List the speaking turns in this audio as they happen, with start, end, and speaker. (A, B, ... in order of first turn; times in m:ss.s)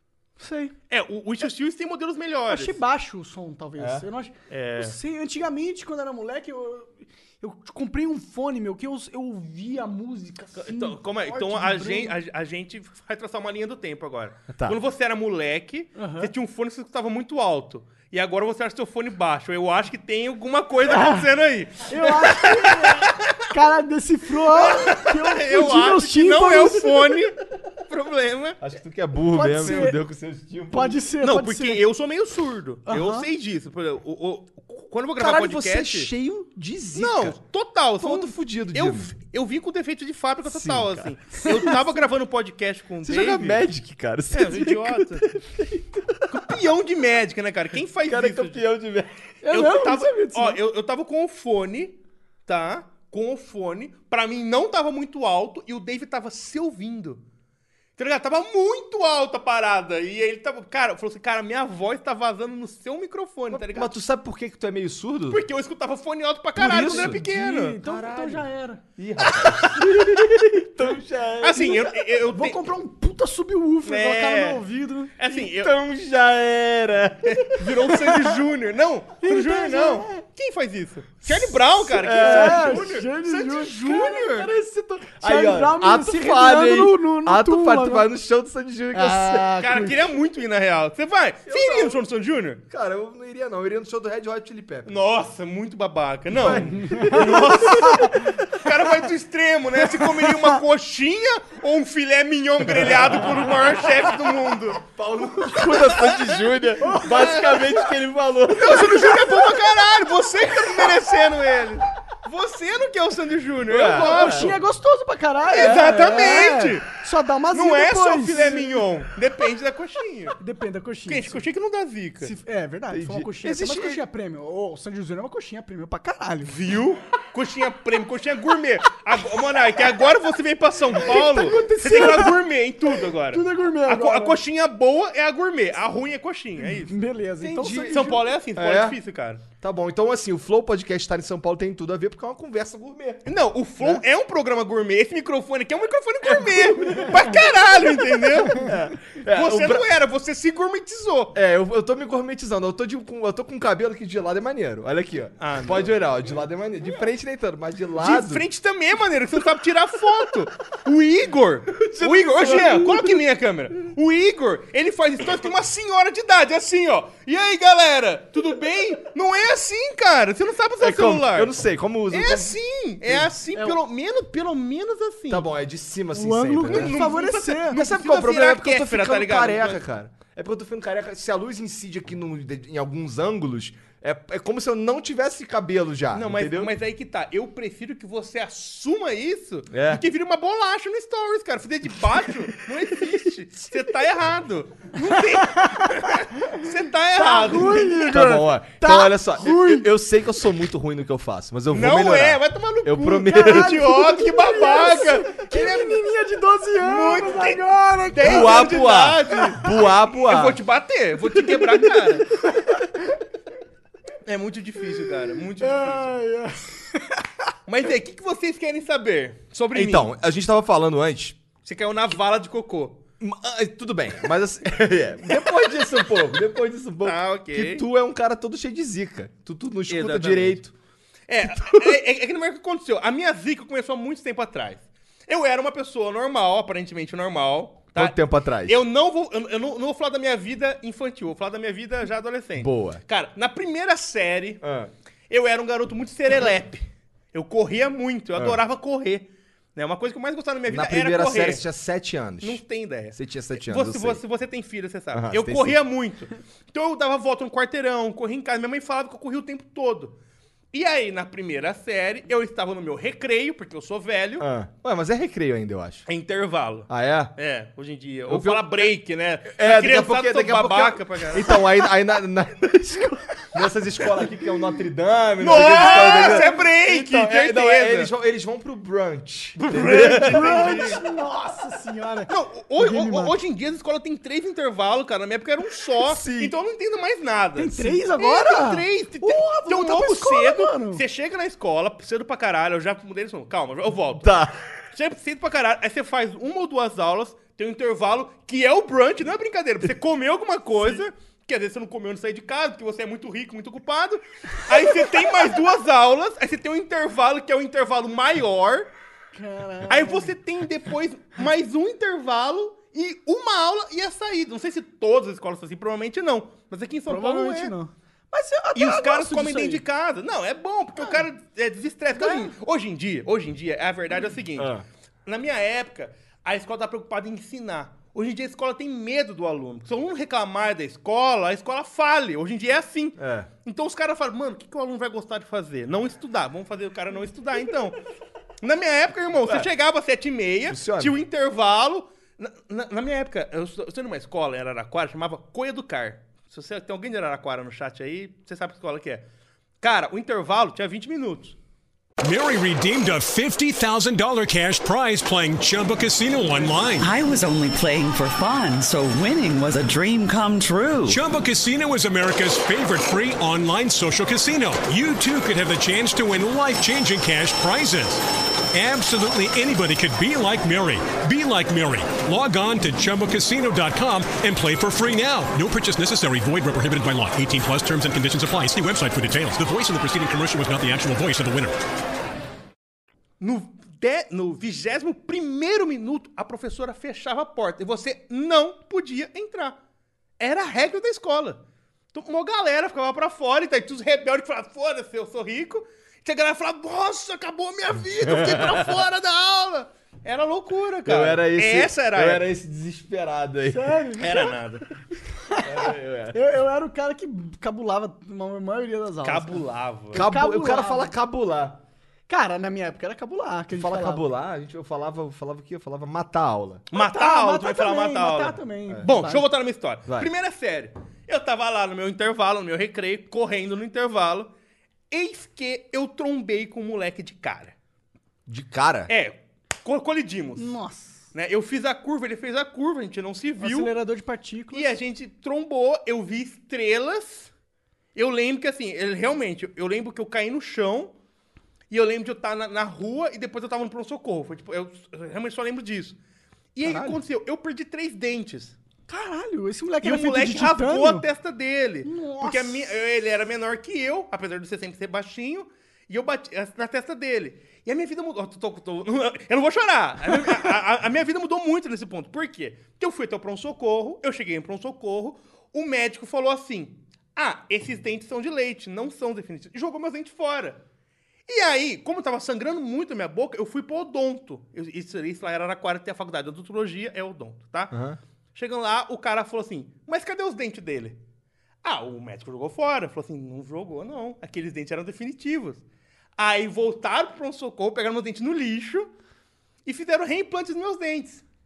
0:00.4-0:00.7 A
0:00.9-0:02.8 B
0:02.5-0:12.2 A
0:03.8-0:04.0 C
0:04.5-0:05.0 B
0:10.6-0:23.5 B
0:14.5-0:14.8 C
0:16.0-0:16.3 A
0:20.9-0:21.3 A
0:21.9-0:27.2 A
0:24.5-0:28.6 B
0:28.6-0:31.0 C
0:29.3-0:30.0 A
0:30.7-0:31.8 A
0:31.2-0:36.1 B
0:32.9-0:33.3 A
0:35.2-0:37.4 C
0:36.9-0:43.6 B
0:38.0-0:39.1 C
0:40.4-0:41.1 C
0:43.0-0:46.4 C
0:44.3-0:45.3 B
0:46.3-0:48.6 B
0:48.0-0:49.1 C
0:49.4-0:50.6 A
0:49.5-0:57.2 B
0:58.0-1:03.9 B
1:03.5-1:05.4 C
1:05.3-1:07.8 B
1:06.6-1:08.5 C
1:06.7-1:08.8 A
1:09.0-1:11.8 C
1:09.2-1:09.6 B
1:11.4-1:12.6 B
1:11.6-1:15.1 A
1:13.8-1:14.6 B
1:15.2-1:15.8 B
1:15.3-1:17.7 C
1:17.2-1:24.5 B
1:17.9-1:18.3 A
1:19.2-1:20.2 A
1:21.8-1:22.9 C
1:21.9-1:28.1 A
1:25.2-1:29.6 C
1:28.9-1:30.1 A
1:29.6-1:32.6 B
1:31.5-1:32.0 C
1:32.7-1:35.0 C
1:34.9-1:44.8 B
1:36.3-1:38.3 C
1:36.5-1:38.3 A
1:42.7-1:43.5 C
1:44.8-1:49.4 C
1:45.6-1:47.8 B
1:46.8-1:47.6 A
1:48.6-1:54.6 B
1:48.6-1:49.5 A
1:53.7-1:54.6 C
1:53.9-1:58.8 A
1:55.5-1:56.9 B
1:55.5-1:56.4 C
1:57.5-2:00.4 B
2:00.4-2:01.4 A
2:01.1-2:02.3 B
2:02.2-2:06.5 A
2:02.9-2:04.0 C
2:06.4-2:17.0 B
2:11.0-2:12.4 A
2:13.3-2:14.4 A
2:16.6-2:18.1 A
2:17.4-2:19.0 C
2:17.9-2:19.4 B
2:19.6-2:23.2 C
2:23.2-2:31.4 B
2:26.2-2:27.4 C
2:28.5-2:29.9 C
2:31.3-2:38.4 C
2:35.4-2:35.9 B
2:38.0-2:51.5 B
2:41.8-2:43.2 C
2:50.8-2:53.3 C
2:52.1-2:55.5 B
2:55.3-2:57.1 C
2:56.1-2:57.8 A
2:56.7-2:59.8 B
2:57.7-3:06.7 C
3:06.1-3:18.2 B
3:09.7-3:10.0 C
3:15.1-3:16.6 A
3:17.1-3:19.9 A
3:18.1-3:23.8 C
3:21.7-3:26.0 B
3:23.4-3:28.7 A
3:26.8-3:32.3 B
3:28.2-3:30.6 C
3:31.4-3:33.0 A
3:34.2-3:36.2 B
3:35.6-3:37.2 A
3:37.7-3:40.1 B
3:39.7-3:41.4 C
3:41.6-3:43.0 B
3:43.2-3:50.7 C
3:47.0-3:47.8 B
3:49.9-3:50.6 B
3:51.3-4:04.6 B
3:51.5-3:52.0 C
3:58.0-3:58.8 C
4:02.6-4:03.0 C
4:04.6-4:04.9 C
4:05.3-4:11.6 B
4:10.7-4:14.2 C
4:12.4-4:20.2 B
4:15.1-4:15.8 C
4:20.7-4:24.5 B
4:24.4-4:26.1 C
4:26.1-4:31.6 B
4:26.9-4:27.3 C
4:28.3-4:28.9 C
4:29.5-4:40.9 C
4:35.4-4:38.1 B
4:35.5-4:36.5 A
4:39.6-4:41.0 B
4:39.9-4:43.3 A
4:42.3-4:54.4 B
4:46.0-4:46.5 C
4:47.6-4:51.0 A
4:54.2-4:54.6 C
4:54.9-5:08.9 B
5:09.4-5:10.3 A
5:09.9-5:17.7 B
5:17.1-5:19.8 A
5:18.8-5:24.7 B
5:21.0-5:21.2 A
5:22.1-5:22.5 A
5:24.6-5:24.8 C
5:25.3-5:38.0 B
5:33.2-5:33.5 C
5:38.6-5:49.2 B
5:40.7-5:41.2 C
5:49.8-5:51.6 B
5:52.2-5:57.1 D
5:57.0-6:01.2 E
6:01.1-6:21.8 D
6:23.4-6:29.8 B
6:30.4-6:31.6 B
6:32.1-6:42.5 B
6:38.2-6:39.0 C
6:41.1-6:44.1 C
6:43.7-6:44.5 A
6:44.2-6:44.9 B
6:45.5-6:51.1 A
6:45.6-6:46.4 C
6:49.2-6:50.2 B
6:50.1-6:51.8 C
6:52.3-6:54.3 A
6:53.7-6:56.8 C
6:56.9-7:04.5 B
6:56.9-6:59.4 A
7:05.1-7:07.7 B
7:08.5-7:09.1 C
7:09.1-7:10.7 B
7:10.6-7:11.2 A
7:11.3-7:13.9 B
7:13.6-7:14.9 A
7:14.7-7:17.5 B
7:18.1-7:21.1 B
7:21.9-7:26.2 B
7:26.8-7:28.8 B
7:26.8-7:27.2 A
7:29.1-7:31.2 A
7:30.0-7:50.8 B
7:32.0-7:32.9 A
7:51.5-7:58.0 B
7:57.9-7:58.2 C
7:58.6-8:01.2 B
8:01.8-8:05.8 B
8:06.4-8:09.1 B
8:09.8-8:11.4 B